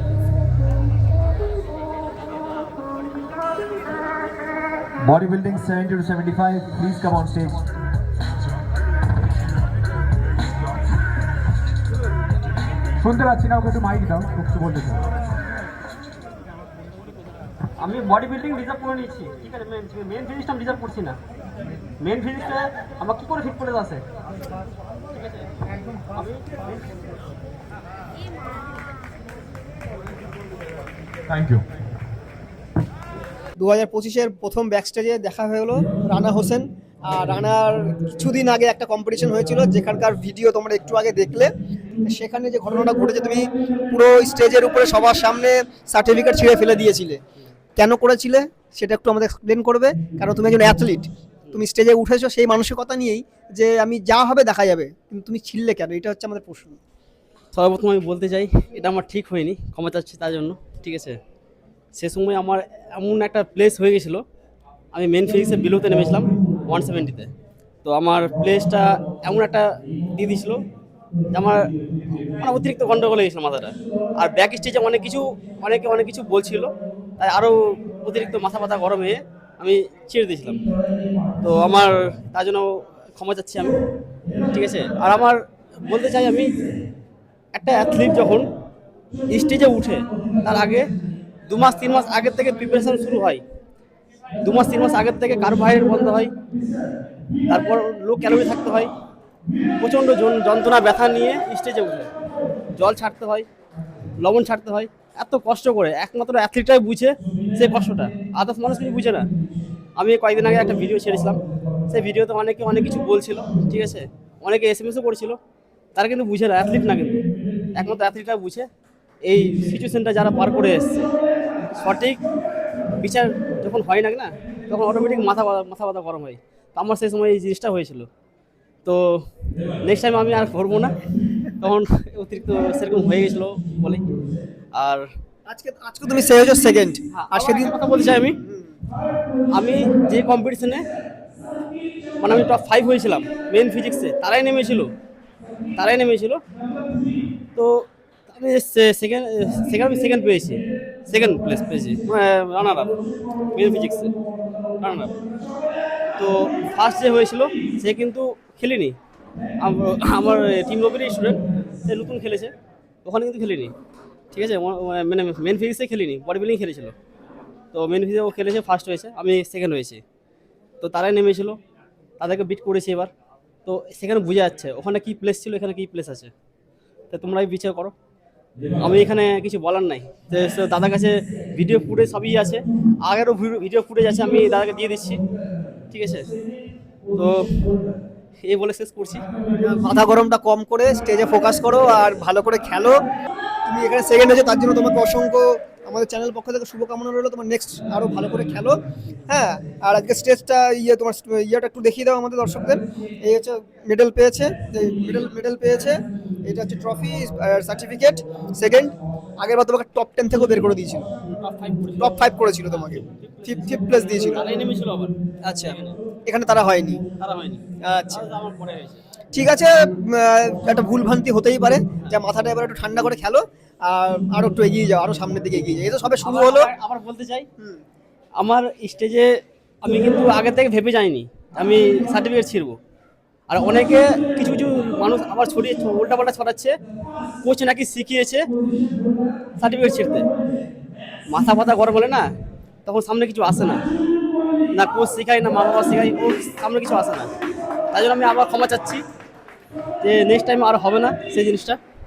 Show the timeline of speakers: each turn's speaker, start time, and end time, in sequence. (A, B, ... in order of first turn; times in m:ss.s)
0:05.1-0:07.6 A
0:13.0-0:15.1 A
0:17.8-0:21.2 B
0:22.0-0:24.1 B
0:26.1-0:26.6 B
0:31.3-0:31.6 A
0:33.6-0:47.2 C
0:47.8-0:56.8 C
0:57.5-1:01.2 B
1:02.0-1:04.2 B
1:04.9-1:07.3 B
1:07.8-1:10.6 B
1:11.3-1:20.6 B
1:21.4-1:23.8 B
1:24.4-1:26.6 B
1:27.5-1:28.5 B
1:29.3-1:30.9 B
1:31.4-1:33.4 B
1:34.4-1:36.3 B
1:37.5-1:38.9 B
1:39.8-1:42.1 B
1:42.8-1:43.5 B
1:44.2-1:49.3 B
1:50.0-1:55.4 B
1:56.0-1:57.2 B
1:57.7-1:58.7 B
1:59.2-2:01.1 B
2:01.8-2:02.3 B
2:03.0-2:08.1 B
2:08.8-2:09.2 B
2:09.8-2:11.0 B
2:11.6-2:14.1 B
2:14.8-2:15.0 B
2:15.5-2:17.8 C
2:17.1-2:18.4 B
2:18.4-2:18.8 C
2:19.5-2:20.8 B
2:22.2-2:24.9 B
2:25.8-2:26.4 B
2:27.6-2:33.0 B
2:33.5-2:34.2 B
2:34.8-2:35.1 B
2:36.2-2:39.0 B
2:39.6-2:42.5 B
2:43.0-2:43.7 B
2:44.3-2:47.0 B
2:47.7-2:50.0 B
2:50.8-2:51.6 B
2:52.2-2:53.1 B
2:53.7-2:56.3 B
2:57.1-2:58.0 B
2:58.8-3:05.2 B
3:05.9-3:06.3 B
3:07.1-3:07.5 B
3:08.4-3:09.3 B
3:09.5-3:13.0 C
3:13.6-3:31.1 C
3:31.2-3:36.0 B
3:32.0-3:34.5 C
3:35.4-3:37.0 C
3:37.2-3:39.0 B
3:37.8-3:38.2 C
3:39.3-3:46.7 C
3:46.2-3:47.5 B
3:48.4-3:49.3 B
3:49.8-3:52.8 B
3:53.5-3:56.8 B
3:57.4-3:58.5 B
3:59.6-4:00.3 B
4:01.3-4:02.3 B
4:02.8-4:03.9 B
4:04.7-4:07.3 B
4:07.9-4:09.0 B
4:10.0-4:11.8 B